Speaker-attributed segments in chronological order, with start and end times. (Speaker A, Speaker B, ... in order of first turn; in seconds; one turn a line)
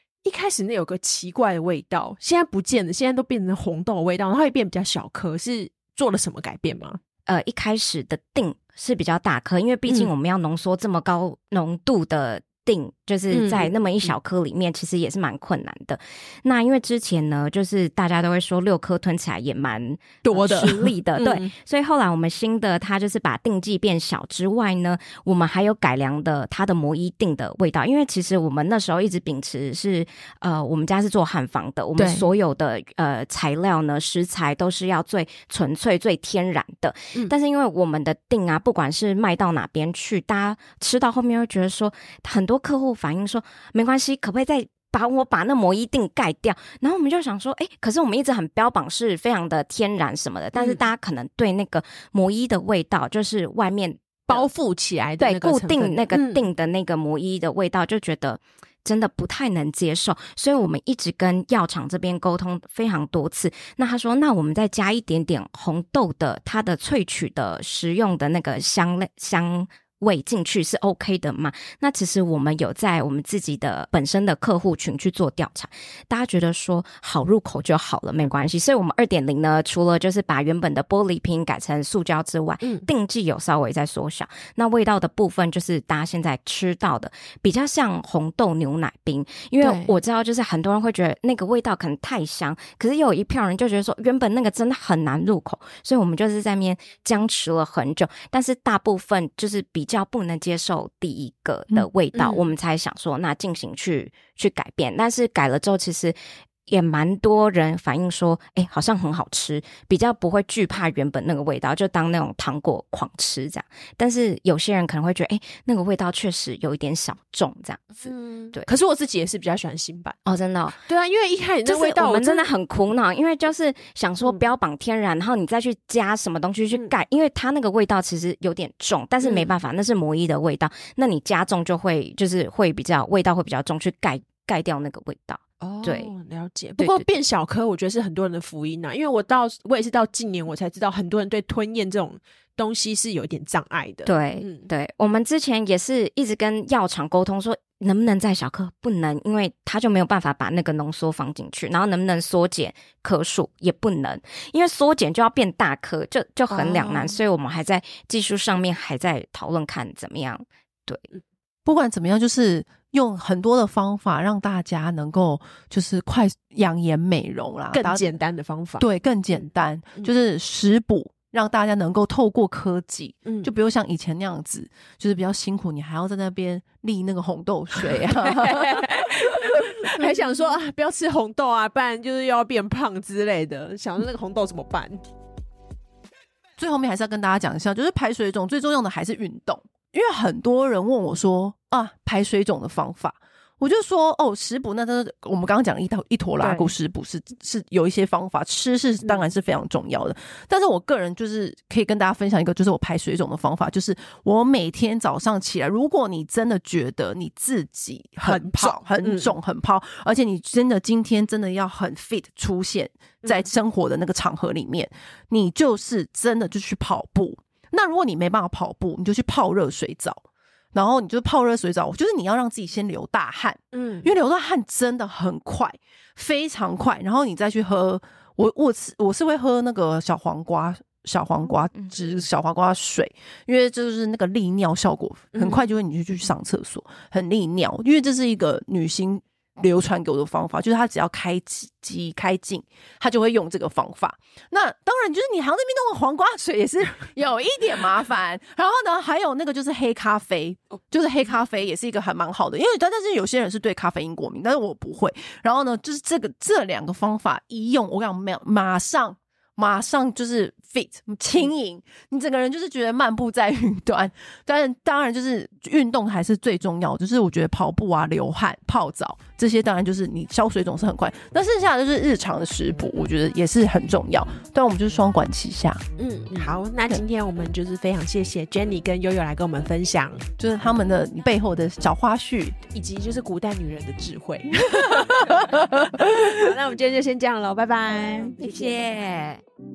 Speaker A: 0.2-7.0
Speaker B: 7.3-54.5
Speaker A: 9.9-10.1
Speaker A: 13.3-13.7
Speaker A: 20.2-21.5
Speaker A: 32.0-32.3
Speaker A: 50.5-50.8
Speaker A: 54.3-56.5
Speaker B: 55.2-106.2
Speaker A: 82.6-82.9
Speaker A: 89.6-89.9
Speaker A: 102.1-102.5
Speaker B: 106.7-118.7
Speaker A: 118.0-120.2
Speaker B: 120.2-120.8
Speaker A: 120.8-122.5
Speaker B: 121.7-136.1
Speaker A: 129.2-129.5
Speaker A: 135.6-144.7
Speaker B: 136.8-137.1
Speaker B: 144.1-161.1
Speaker A: 156.5-157.2
Speaker C: 161.7-168.0
Speaker A: 167.7-169.4
Speaker C: 168.8-180.5
Speaker A: 173.2-173.5
Speaker A: 178.0-185.0
Speaker C: 186.6-275.8
Speaker A: 196.4-196.7
Speaker A: 208.2-209.3
Speaker A: 213.2-213.5
Speaker A: 223.7-224.1
Speaker A: 235.3-235.7
Speaker A: 276.0-280.2
Speaker C: 280.4-282.6
Speaker A: 282.7-288.8
Speaker B: 288.4-289.4